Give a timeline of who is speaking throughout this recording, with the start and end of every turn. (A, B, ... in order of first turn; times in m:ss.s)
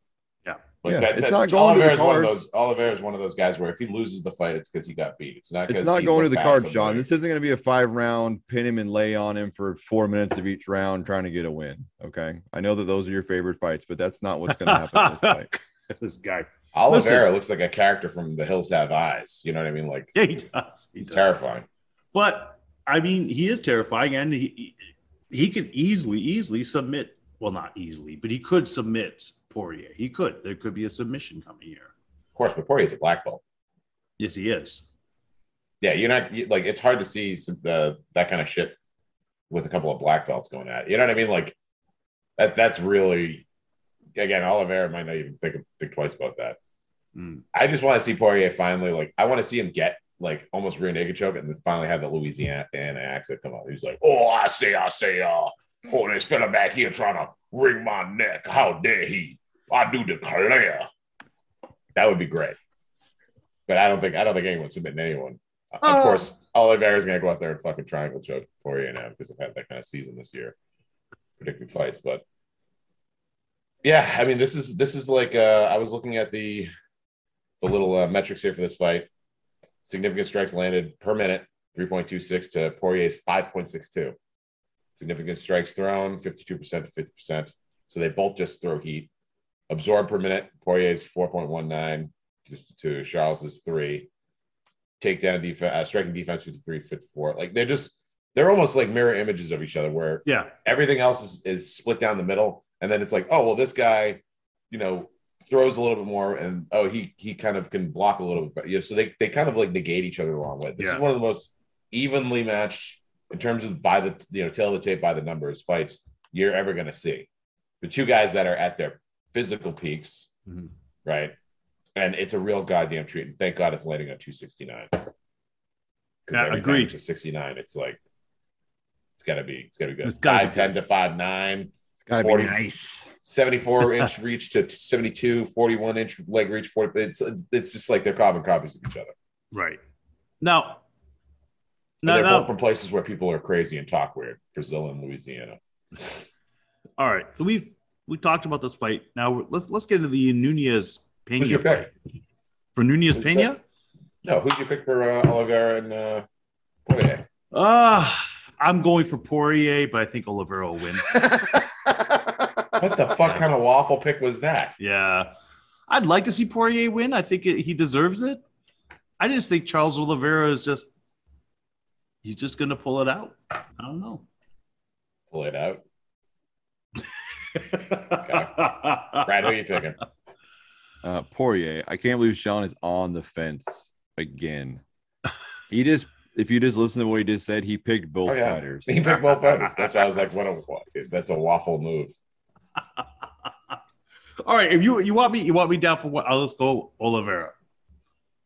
0:00.8-0:07.0 A
0:00.8-0:02.4 B
0:05.7-0:15.5 B
0:14.5-0:17.2 C
0:16.7-0:20.1 A
0:20.1-0:21.3 C
0:21.0-0:21.6 A
0:22.1-0:24.8 C
0:25.3-0:31.9 C
0:32.3-0:33.4 A
0:34.2-0:34.8 C
0:35.8-0:38.8 A
0:39.5-0:41.6 A
0:42.4-0:43.4 A
0:44.2-0:46.6 A
0:47.2-0:47.4 C
0:47.5-1:00.9 A
1:01.9-1:02.6 A
1:03.7-1:10.5 A
1:05.8-1:06.2 C
1:11.4-1:12.2 A
1:13.8-1:16.7 A
1:17.6-1:19.1 A
1:19.8-1:24.2 A
1:24.9-1:29.1 A
1:29.7-1:34.1 A
1:35.0-1:57.3 A
1:40.2-1:40.5 C
1:50.8-1:51.0 C
1:57.8-2:00.3 A
2:01.0-2:01.3 A
2:02.0-2:05.1 A
2:06.3-2:08.0 A
2:06.3-2:06.9 C
2:09.2-2:12.6 A
2:10.0-2:10.7 C
2:12.0-2:13.1 B
2:13.2-2:19.1 A
2:19.5-2:19.8 C
2:20.4-2:20.8 C
2:22.0-2:22.5 C
2:22.0-2:26.1 A
2:27.0-2:31.9 C
2:31.4-2:31.9 A
2:32.8-2:33.6 C
2:33.2-2:33.5 A
2:34.2-2:36.2 A
2:36.8-2:37.2 A
2:37.5-2:41.1 C
2:41.3-2:41.6 B
2:42.8-2:44.8 A
2:44.8-2:45.3 C
2:45.9-2:48.4 C
2:49.2-2:50.9 C
2:52.2-2:54.2 C
2:55.3-2:55.8 A
2:57.5-2:59.2 C
2:58.1-3:00.0 A
3:01.0-3:04.8 B
3:05.7-3:09.0 B
3:08.2-3:12.1 A
3:14.4-3:17.5 C